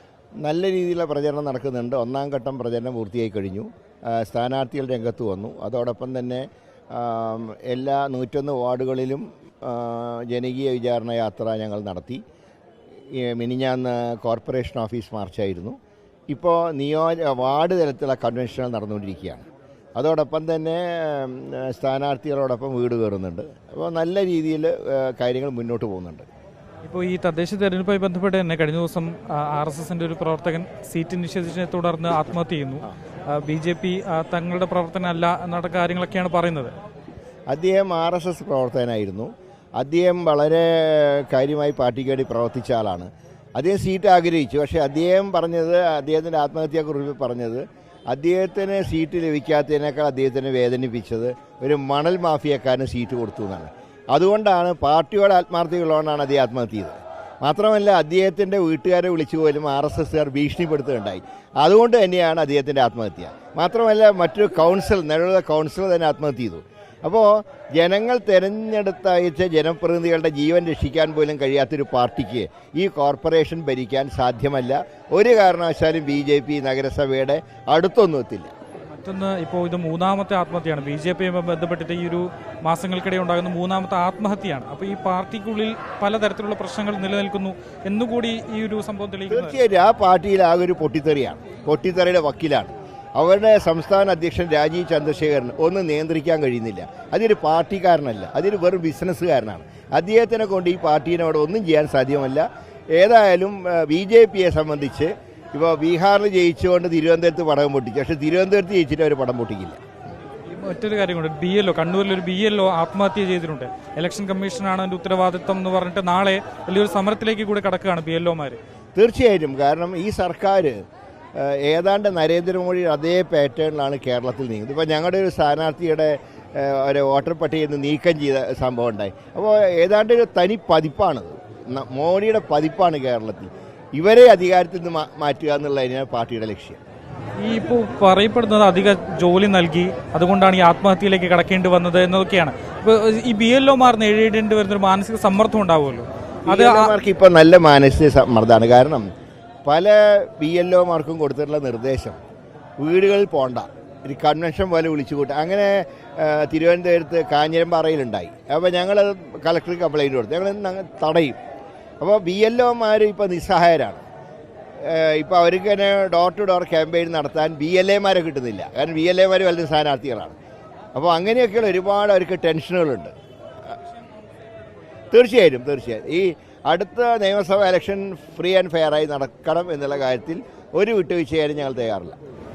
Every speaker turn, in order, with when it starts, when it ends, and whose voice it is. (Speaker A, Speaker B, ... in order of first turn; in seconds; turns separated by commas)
Speaker A: 0.4-12.2, Speaker A: 13.1-15.7, Speaker A: 16.3-19.4, Speaker A: 20.0-26.2, Speaker B: 26.8-36.7, Speaker A: 37.5-78.5, Speaker B: 78.9-89.6, Speaker A: 89.3-102.4, Speaker A: 103.0-109.8, Speaker B: 110.5-118.6, Speaker A: 118.9-120.8, Speaker A: 121.3-136.8, Speaker B: 137.4-146.9, Speaker A: 146.5-149.1, Speaker A: 149.7-152.2, Speaker A: 152.8-161.4, Speaker A: 162.0-164.0, Speaker A: 164.8-170.4, Speaker A: 170.9-173.1, Speaker A: 175.1-182.2